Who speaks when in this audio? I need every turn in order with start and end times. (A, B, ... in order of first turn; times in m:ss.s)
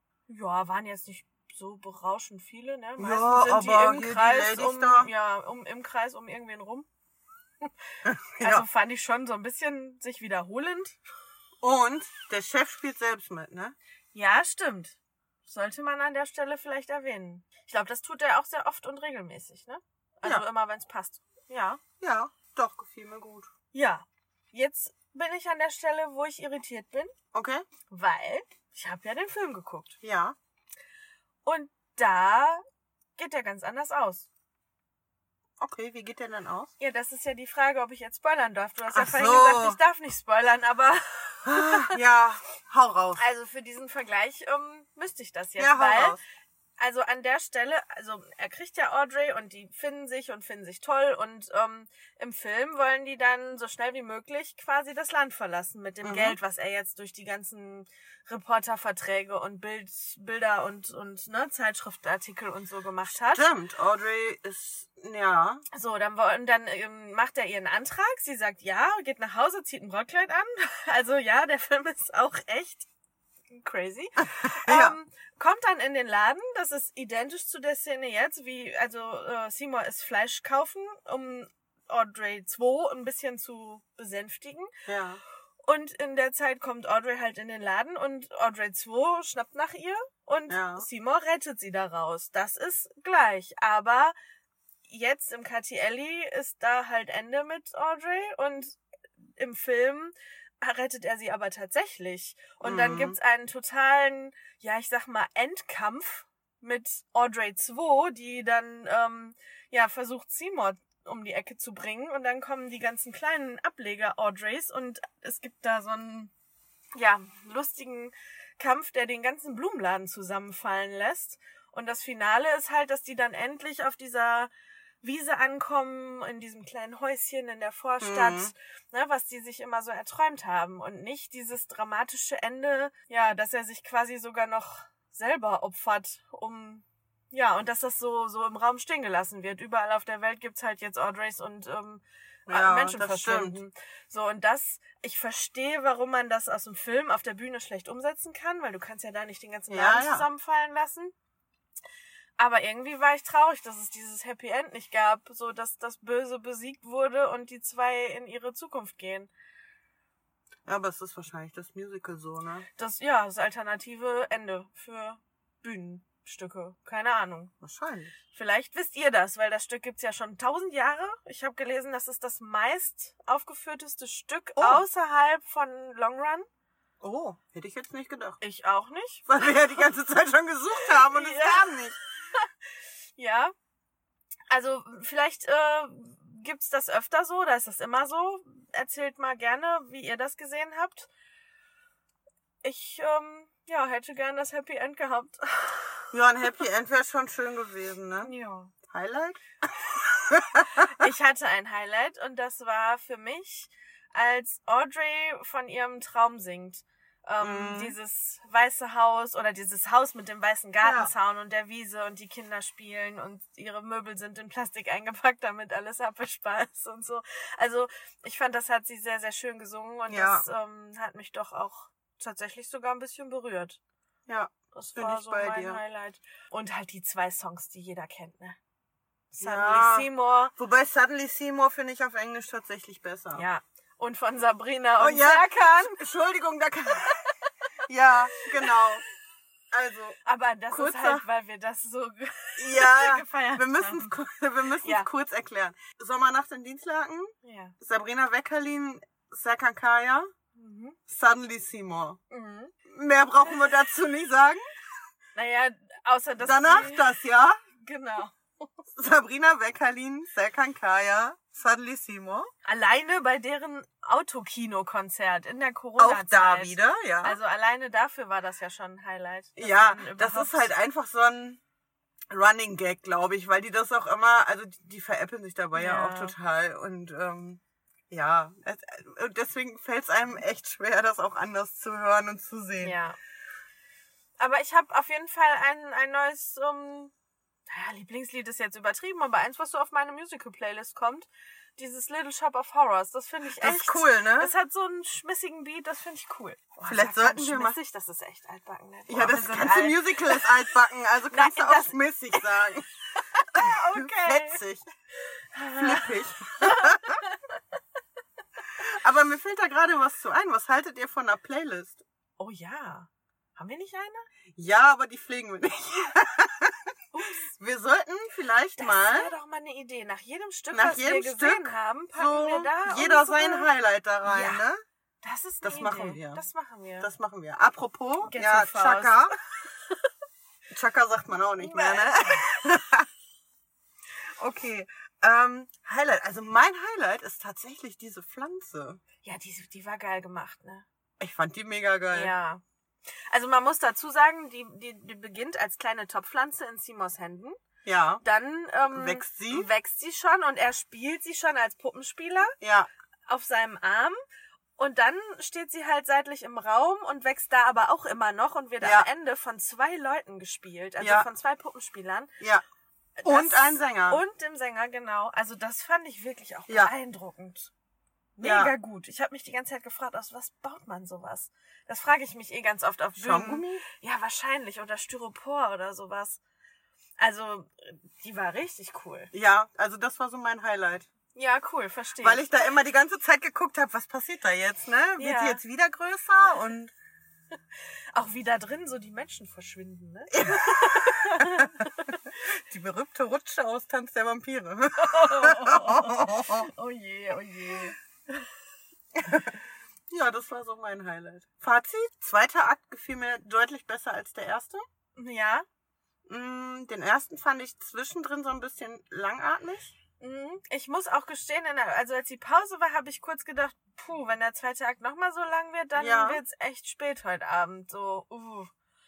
0:00.3-0:06.9 A
0:03.0-0:05.1 B
0:08.0-0:08.6 B
0:08.4-0:11.0 A
0:11.6-0:13.8 B
0:14.1-0:21.8 A
0:22.0-0:23.5 B
0:23.7-0:27.1 A
0:27.3-0:27.6 B
0:27.9-0:30.0 A
0:30.0-0:30.4 B
0:31.4-0:32.6 A
0:33.2-0:34.3 A
0:35.6-0:36.7 B
0:36.8-0:42.0 A
0:38.9-0:39.8 B
0:41.4-0:43.2 B
0:43.2-0:46.2 A
0:45.6-0:46.2 B
0:46.8-1:03.5 A
0:56.0-0:56.4 B
1:03.3-1:05.6 B
1:05.7-1:12.9 A
1:13.5-1:24.7 A
1:14.2-1:15.0 B
1:24.8-1:25.2 B
1:25.6-1:34.1 A
1:30.5-1:30.9 B
1:34.8-1:38.8 A
1:39.4-1:56.3 A
1:42.6-1:43.2 B
1:56.9-2:04.5 A
2:05.0-2:31.1 A
2:08.0-2:08.5 B
2:22.5-2:23.6 B
2:29.7-2:30.2 B
2:32.4-2:39.3 A
2:40.6-2:42.7 B
2:42.8-2:47.5 A
2:47.6-2:48.1 B
2:48.3-2:56.4 A
2:54.6-2:54.8 B
2:57.0-2:58.4 B
2:58.4-2:59.3 A
2:59.3-3:02.0 B
3:00.8-3:02.5 A
3:03.2-3:03.5 A
3:04.5-3:11.1 A
3:12.6-3:16.0 A
3:16.1-3:18.3 B
3:18.2-3:18.7 A
3:18.9-3:21.0 B
3:20.7-3:43.8 A
3:27.4-3:27.9 B
3:30.8-3:31.1 B
3:40.1-3:40.4 B
3:44.3-3:45.8 B
3:44.7-3:48.6 A
3:49.3-3:50.5 A
3:49.4-3:53.4 B
3:53.3-3:56.0 A
3:55.0-3:57.2 B
3:57.9-3:59.0 B
3:59.7-4:00.2 B
4:00.2-4:04.2 A
4:00.7-4:01.2 B
4:02.6-4:10.3 B
4:04.8-4:05.1 A
4:07.4-4:07.7 A
4:10.5-4:11.0 A
4:11.1-4:12.2 B
4:12.3-4:12.7 A
4:12.9-4:14.6 B
4:15.3-4:17.1 A
4:16.4-4:17.6 B
4:17.8-4:18.7 A
4:18.9-4:22.5 B
4:22.6-4:30.7 A
4:26.0-4:27.4 B
4:29.6-4:31.6 B
4:32.3-4:43.0 B
4:35.7-4:36.4 A
4:42.8-4:43.2 A
4:44.4-4:47.1 A
4:47.7-5:00.5 A
4:53.6-4:54.5 B
4:56.8-4:57.8 B
4:59.1-5:02.9 B
5:01.3-5:02.4 A
5:03.2-5:04.6 A
5:03.5-5:04.8 B
5:05.5-5:07.6 A
5:05.8-5:07.2 B
5:08.8-5:12.0 B
5:12.4-5:14.3 A
5:14.5-5:16.9 B
5:17.1-5:17.5 A
5:17.5-5:19.3 B
5:18.8-5:23.7 A
5:20.7-5:24.8 B
5:24.2-5:24.6 A
5:25.2-5:27.1 A
5:25.6-5:26.4 B
5:27.0-5:29.3 B
5:28.2-5:29.3 A
5:30.7-5:33.1 B
5:31.6-5:32.4 A
5:34.4-5:39.0 B
5:39.2-5:40.8 A
5:41.2-5:42.3 B
5:42.1-5:42.6 A
5:43.3-5:47.6 A
5:47.8-5:48.2 B
5:48.2-5:52.5 A
5:48.9-5:49.7 B
5:52.6-5:52.9 B
5:53.3-5:54.2 A
5:54.8-6:02.3 A
5:58.8-5:59.1 B
6:01.0-6:01.2 B
6:03.2-6:07.7 A
6:03.2-6:04.2 B
6:08.4-6:16.4 A
6:08.4-6:08.7 B
6:13.2-6:13.8 B
6:17.2-6:19.3 A
6:19.3-6:21.1 B
6:21.3-6:22.6 A
6:22.2-6:26.9 B
6:25.2-6:25.6 A
6:28.1-6:32.2 A
6:30.3-6:36.7 B
6:35.0-6:38.5 A
6:39.1-6:44.8 B
6:45.2-6:45.6 A
6:46.3-6:50.0 B
6:50.2-6:58.7 A
6:56.0-6:56.4 B